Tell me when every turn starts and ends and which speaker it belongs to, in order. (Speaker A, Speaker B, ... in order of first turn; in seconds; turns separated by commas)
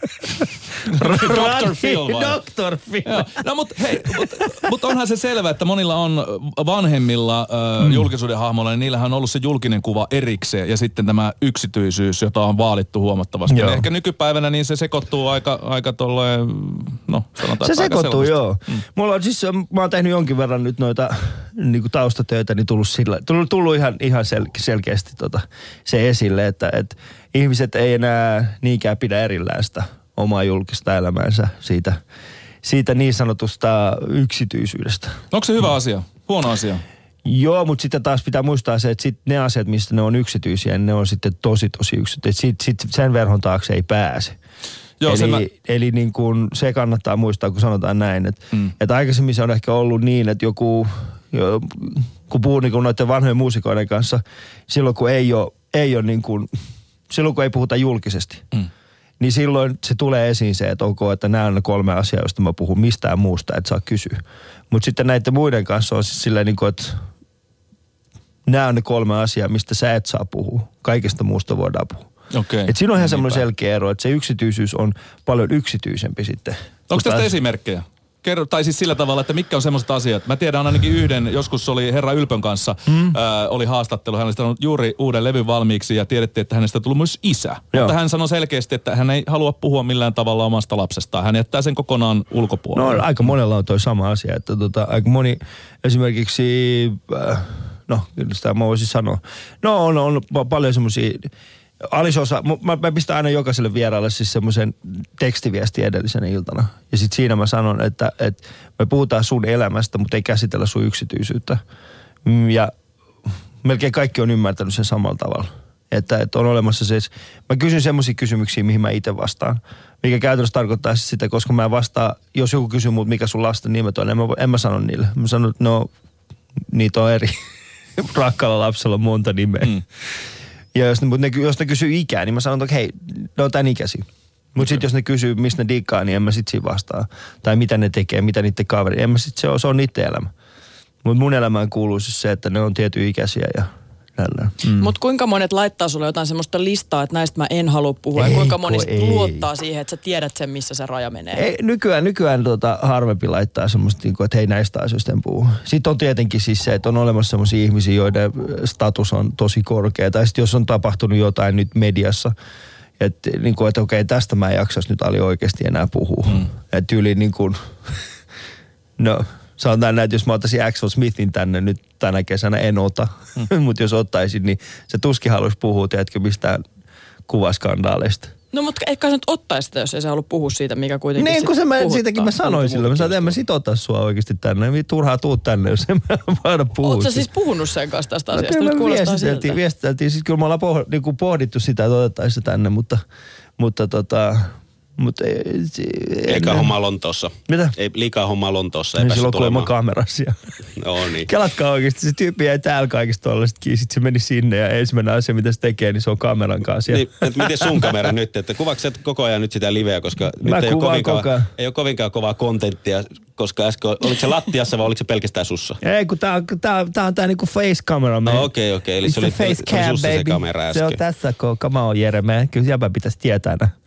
Speaker A: 0.2-3.3, Speaker B: 0.9-2.4, Speaker B: 3.0-18.8, Speaker A: 13.5-13.9, Speaker A: 17.6-32.0, Speaker A: 32.6-35.2, Speaker B: 35.3-36.8, Speaker A: 37.2-44.3, Speaker B: 45.0-45.4, Speaker A: 45.0-56.5, Speaker A: 57.1-58.4, Speaker A: 59.2-67.0, Speaker A: 68.5-72.1, Speaker B: 72.3-73.4, Speaker A: 72.7-77.3, Speaker B: 76.9-93.1, Speaker A: 92.7-101.3, Speaker A: 101.8-111.6, Speaker A: 112.2-112.7, Speaker A: 113.6-125.9, Speaker A: 126.7-127.3, Speaker A: 128.0-129.8, Speaker A: 130.7-140.3, Speaker A: 141.0-144.9, Speaker C: 144.6-151.4, Speaker A: 148.1-149.5, Speaker A: 151.3-162.3, Speaker A: 163.0-167.6, Speaker A: 169.0-176.6, Speaker A: 177.3-178.3, Speaker C: 178.5-182.4, Speaker A: 181.2-187.3, Speaker D: 182.6-183.3, Speaker C: 186.8-189.6, Speaker A: 188.3-193.0, Speaker A: 193.6-196.7, Speaker D: 196.3-199.7, Speaker A: 197.5-197.8, Speaker A: 199.0-200.3, Speaker D: 200.8-201.3, Speaker A: 201.2-207.2, Speaker D: 206.9-215.8, Speaker A: 210.4-211.5, Speaker A: 215.8-218.5, Speaker D: 218.2-221.0, Speaker A: 219.0-223.7